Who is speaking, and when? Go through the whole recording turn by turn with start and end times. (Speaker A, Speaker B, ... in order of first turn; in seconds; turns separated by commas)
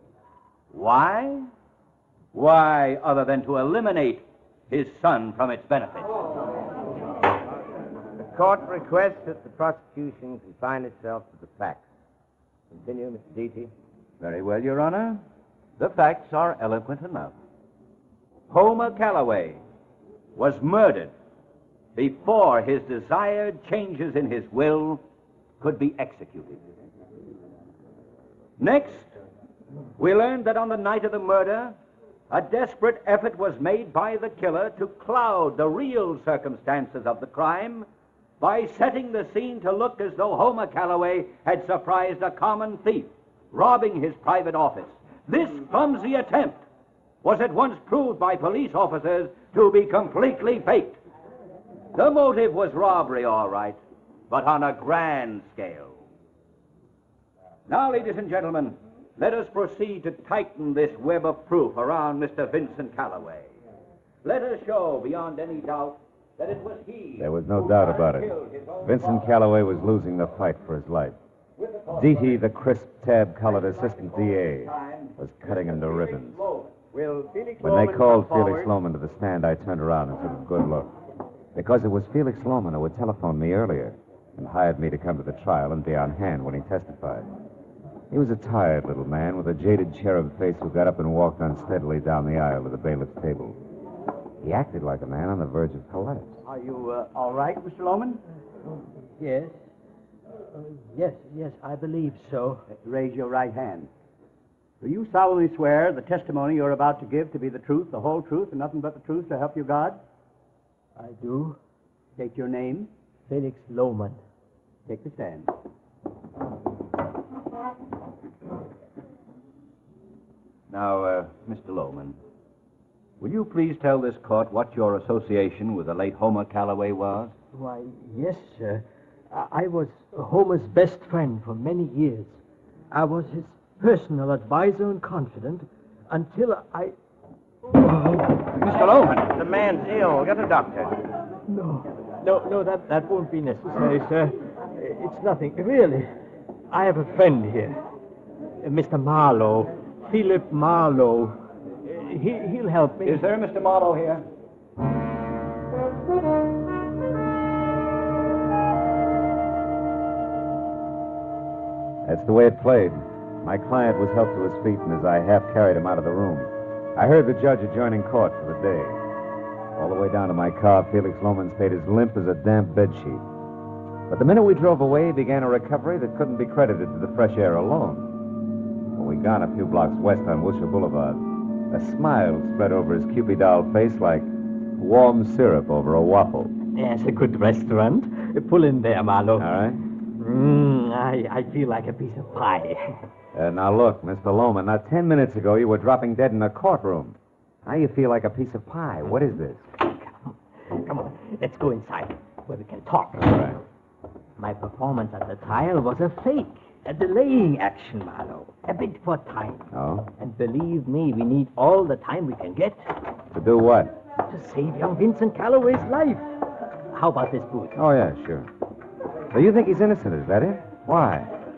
Speaker A: 0.7-1.5, Speaker A: 2.3-6.1, Speaker B: 8.2-11.8, Speaker B: 12.7-13.7, Speaker A: 14.2-15.2, Speaker A: 15.8-17.3, Speaker A: 18.5-19.6, Speaker A: 20.4-21.1, Speaker A: 22.0-25.0, Speaker A: 25.6-26.6, Speaker A: 28.6-29.1, Speaker A: 30.0-31.8, Speaker A: 32.3-37.9, Speaker A: 38.4-46.6, Speaker A: 47.2-51.0, Speaker A: 52.0-53.8, Speaker A: 54.3-56.0, Speaker A: 57.7-63.5, Speaker A: 64.2-69.3, Speaker C: 67.2-68.3, Speaker C: 68.8-71.2, Speaker A: 71.6-72.3, Speaker C: 72.0-76.4, Speaker A: 73.5-77.2, Speaker D: 77.1-78.7, Speaker C: 77.6-80.9, Speaker C: 81.5-87.3, Speaker C: 88.1-93.6, Speaker C: 94.4-96.4, Speaker D: 96.5-98.2, Speaker E: 99.2-99.5, Speaker E: 100.6-102.6, Speaker D: 102.7-103.9, Speaker D: 104.8-110.0, Speaker E: 111.0-111.6, Speaker D: 112.2-112.9, Speaker E: 113.3-114.2, Speaker D: 114.9-115.5, Speaker A: 120.7-122.2, Speaker A: 123.2-127.3, Speaker E: 127.5-136.9, Speaker E: 137.7-138.3, Speaker A: 138.6-139.3, Speaker B: 139.3-141.0, Speaker E: 141.5-146.1, Speaker E: 146.7-147.8, Speaker E: 148.6-153.2, Speaker A: 153.1-154.2, Speaker C: 162.1-169.0, Speaker C: 169.8-173.2, Speaker C: 174.1-178.1, Speaker C: 178.9-186.5, Speaker E: 186.8-189.5, Speaker C: 189.4-189.8, Speaker E: 190.2-193.0, Speaker C: 193.3-199.6, Speaker E: 199.9-203.3, Speaker C: 203.2-203.6, Speaker E: 204.4-212.9, Speaker C: 209.7-210.1, Speaker C: 213.3-213.9, Speaker E: 214.3-216.2, Speaker E: 216.9-217.8, Speaker C: 217.8-218.5, Speaker C: 219.3-221.3